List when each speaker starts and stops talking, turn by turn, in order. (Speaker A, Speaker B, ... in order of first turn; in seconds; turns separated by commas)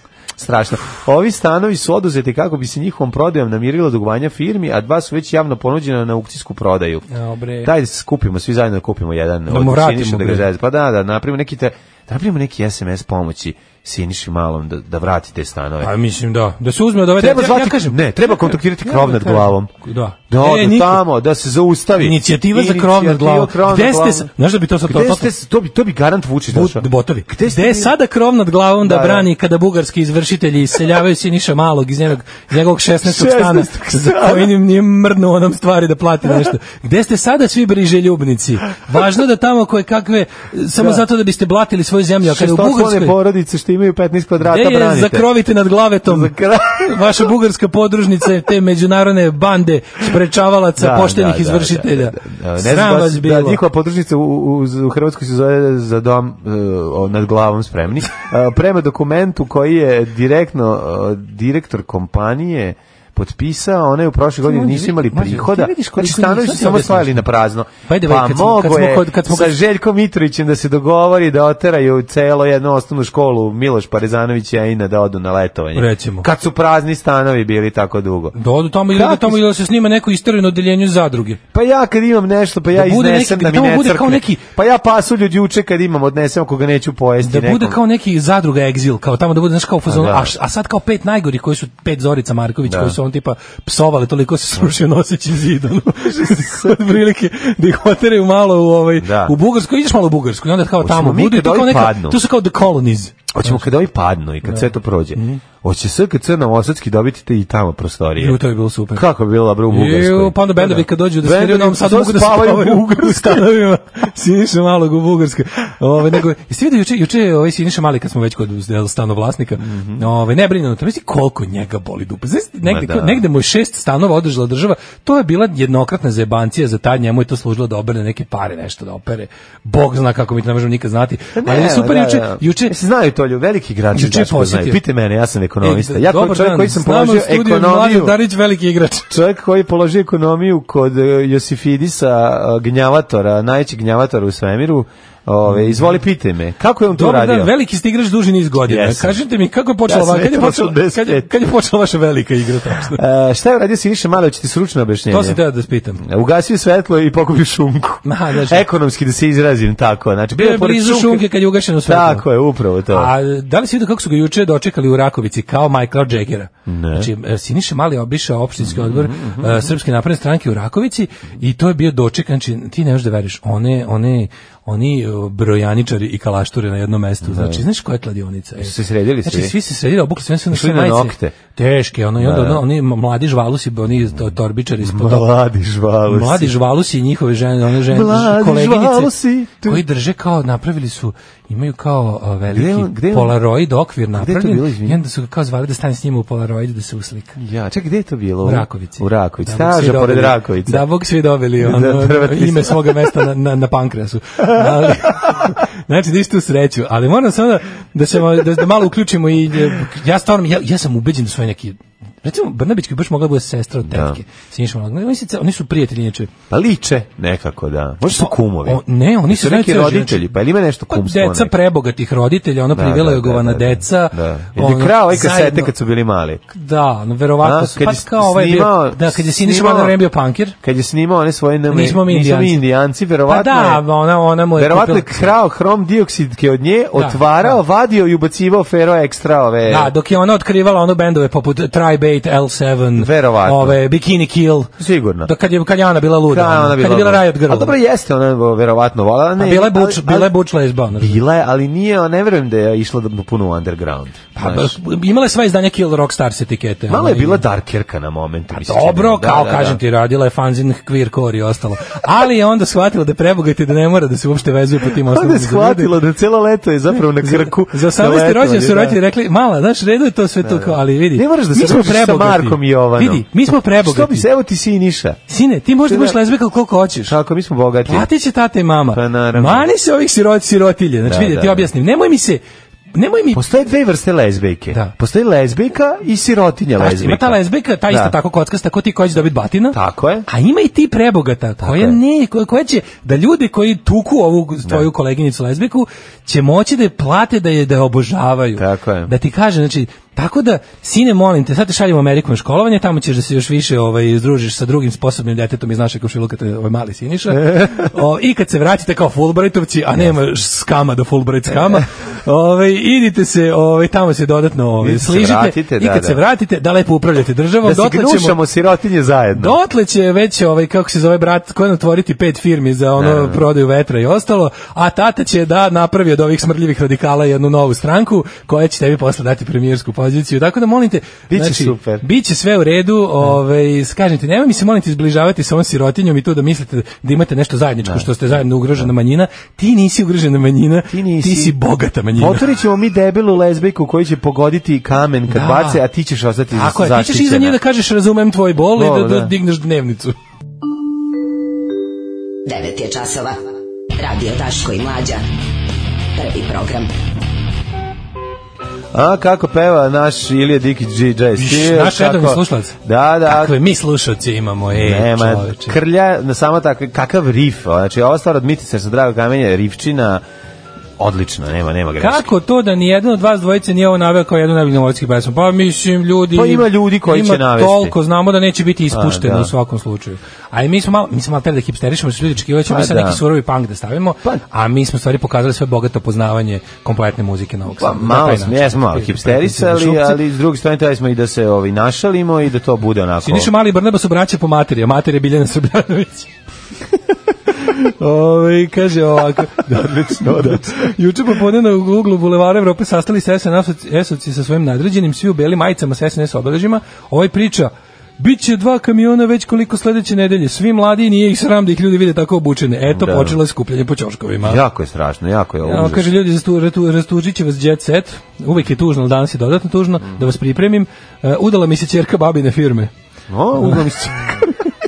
Speaker A: 0.4-7.0, Speaker B: 7.1-7.7, Speaker A: 7.6-15.9, Speaker B: 9.5-10.5, Speaker B: 15.8-21.0, Speaker A: 17.2-19.7, Speaker A: 20.3-24.3, Speaker B: 22.0-25.3, Speaker A: 24.9-27.9, Speaker B: 26.5-43.1, Speaker A: 28.8-29.3, Speaker A: 33.0-34.5, Speaker A: 40.8-41.0, Speaker A: 42.2-45.3, Speaker B: 44.4-53.6, Speaker A: 46.0-47.2, Speaker A: 50.8-78.3, Speaker B: 64.4-67.2, Speaker B: 67.9-69.5, Speaker B: 75.7-76.3, Speaker B: 78.3-81.4, Speaker A: 78.9-79.4, Speaker A: 81.5-87.8, Speaker B: 82.7-84.4, Speaker B: 87.2-103.6, Speaker A: 89.9-90.3, Speaker A: 92.7-93.0, Speaker A: 96.0-96.8, Speaker A: 99.0-99.3, Speaker A: 100.8-102.2, Speaker A: 103.3-108.4, Speaker B: 104.5-105.4, Speaker B: 108.2-109.0, Speaker A: 108.9-113.5, Speaker B: 109.7-132.7, Speaker A: 119.6-120.0, Speaker A: 122.6-123.2, Speaker A: 131.3-138.2, Speaker B: 133.9-134.8, Speaker B: 135.6-139.1, Speaker A: 139.1-147.5, Speaker B: 145.5-145.9, Speaker B: 146.9-153.0, Speaker A: 148.7-149.2, Speaker A: 149.8-151.3, Speaker A: 152.9-155.4, Speaker B: 155.1-156.0, Speaker A: 156.0-161.3, Speaker B: 158.0-158.6, Speaker B: 160.3-162.2, Speaker A: 161.8-163.1, Speaker B: 162.9-185.3, Speaker A: 166.7-167.1, Speaker A: 168.6-169.7, Speaker A: 177.2-177.6, Speaker A: 178.6-179.5, Speaker A: 180.5-181.3, Speaker A: 182.2-182.6, Speaker A: 184.8-186.5, Speaker B: 186.1-197.4, Speaker A: 187.7-189.8, Speaker A: 192.5-193.4, Speaker A: 194.1-195.0, Speaker A: 197.3-200.8, Speaker B: 198.4-216.3, Speaker A: 201.6-203.2, Speaker A: 204.4-205.5, Speaker A: 213.8-214.2, Speaker A: 216.5-221.5, Speaker B: 218.1-220.3, Speaker B: 220.9-225.7, Speaker A: 222.7-226.4, Speaker B: 226.5-230.6, Speaker A: 227.4-230.0, Speaker A: 230.6-233.8, Speaker B: 231.7-232.6, Speaker B: 233.3-235.3, Speaker A: 234.6-239.9, Speaker B: 236.9-237.6, Speaker B: 239.7-244.7, Speaker A: 243.0-243.8, Speaker A: 244.8-245.3, Speaker B: 245.2-247.7, Speaker A: 246.3-250.3, Speaker B: 249.4-251.2, Speaker A: 251.0-254.7, Speaker B: 254.3-257.4, Speaker A: 256.9-259.8, Speaker B: 258.5-265.9, Speaker A: 265.0-269.0, Speaker B: 267.2-274.3, Speaker A: 270.4-275.2, Speaker B: 275.3-277.1, Speaker A: 275.9-276.2, Speaker A: 277.1-278.1, Speaker B: 277.9-282.4, Speaker A: 278.9-279.7, Speaker A: 281.1-281.7, Speaker B: 282.9-283.4, Speaker A: 283.3-287.4, Speaker B: 286.8-318.4, Speaker A: 287.9-288.1, Speaker A: 289.7-290.2, Speaker A: 291.6-292.0, Speaker A: 298.6-299.1, Speaker A: 307.3-307.9, Speaker A: 314.8-316.2, Speaker A: 317.6-319.6, Speaker B: 319.4-342.4, Speaker A: 323.0-323.4, Speaker A: 331.3-332.0, Speaker A: 337.8-338.8, Speaker A: 340.9-341.6, Speaker A: 342.1-347.6, Speaker B: 345.3-345.8, Speaker B: 346.5-350.1, Speaker A: 348.7-349.3, Speaker C: 352.5-353.4, Speaker C: 354.0-355.2, Speaker C: 356.1-356.9, Speaker A: 358.9-363.6, Speaker B: 361.3-365.8, Speaker A: 364.7-370.2, Speaker A: 371.0-372.3, Speaker B: 372.0-390.2, Speaker A: 376.3-377.9, Speaker A: 378.9-379.5, Speaker A: 382.6-383.2, Speaker A: 387.8-393.5, Speaker B: 393.2-396.3, Speaker B: 397.5-414.6, Speaker A: 399.7-400.9, Speaker A: 412.9-413.4, Speaker A: 414.4-416.1, Speaker B: 415.6-422.9, Speaker A: 423.3-424.5, Speaker B: 423.6-424.7